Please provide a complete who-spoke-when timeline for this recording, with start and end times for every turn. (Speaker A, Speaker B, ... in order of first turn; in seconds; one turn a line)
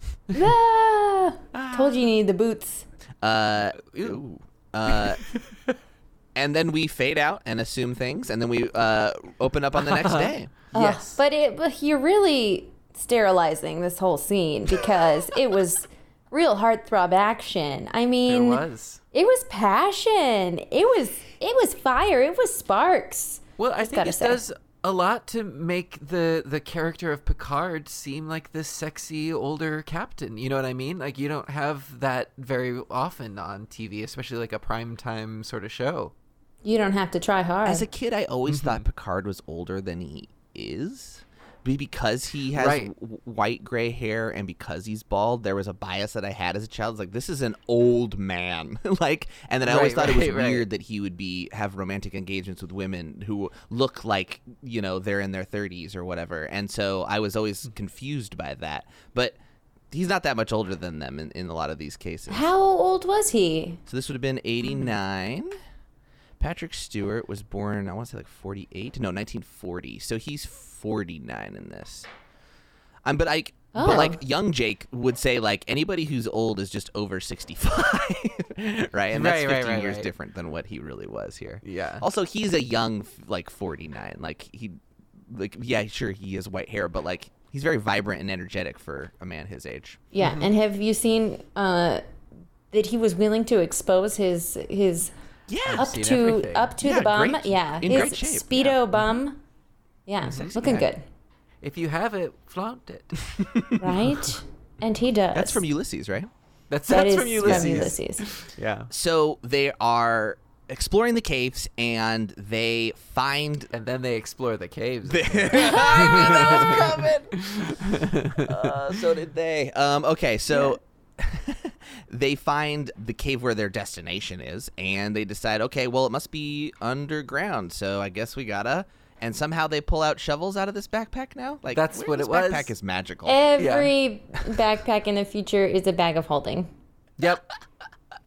Speaker A: 0.3-2.9
Speaker B: 1.5-2.1
Speaker C: 3.2-5.2
Speaker B: 3.8-4.2
Speaker B: 4.9-5.4
Speaker C: 6.3-10.5
Speaker B: 9.7-11.2
Speaker A: 10.7-24.4
Speaker B: 18.3-19.0
Speaker B: 23.6-36.1
Speaker A: 36.6-37.9
Speaker C: 37.6-59.4
Speaker B: 38.5-38.8
Speaker B: 42.5-42.9
Speaker B: 49.6-50.7
Speaker C: 59.9-62.5
Speaker A: 62.3-63.8
Speaker C: 63.9-65.5
Speaker C: 66.4-72.1
Speaker C: 73.0-90.0
Speaker A: 73.7-74.2
Speaker B: 79.1-80.1
Speaker B: 81.6-82.0
Speaker A: 90.1-92.0
Speaker B: 90.2-90.5
Speaker A: 92.7-95.1
Speaker C: 95.5-95.9
Speaker B: 95.7-96.8
Speaker A: 95.7-99.4
Speaker C: 96.8-98.8
Speaker A: 100.1-101.0
Speaker B: 100.2-100.5
Speaker C: 100.5-100.9
Speaker B: 101.6-103.3
Speaker C: 103.4-104.0
Speaker A: 103.8-105.6
Speaker C: 105.3-106.3
Speaker B: 106.7-108.9
Speaker A: 106.9-108.3
Speaker C: 107.4-107.9
Speaker C: 108.9-113.7
Speaker B: 113.7-119.0
Speaker C: 115.1-117.5
Speaker C: 118.3-133.5
Speaker B: 131.7-132.7
Speaker A: 133.3-136.7
Speaker B: 133.6-133.9
Speaker B: 137.2-137.5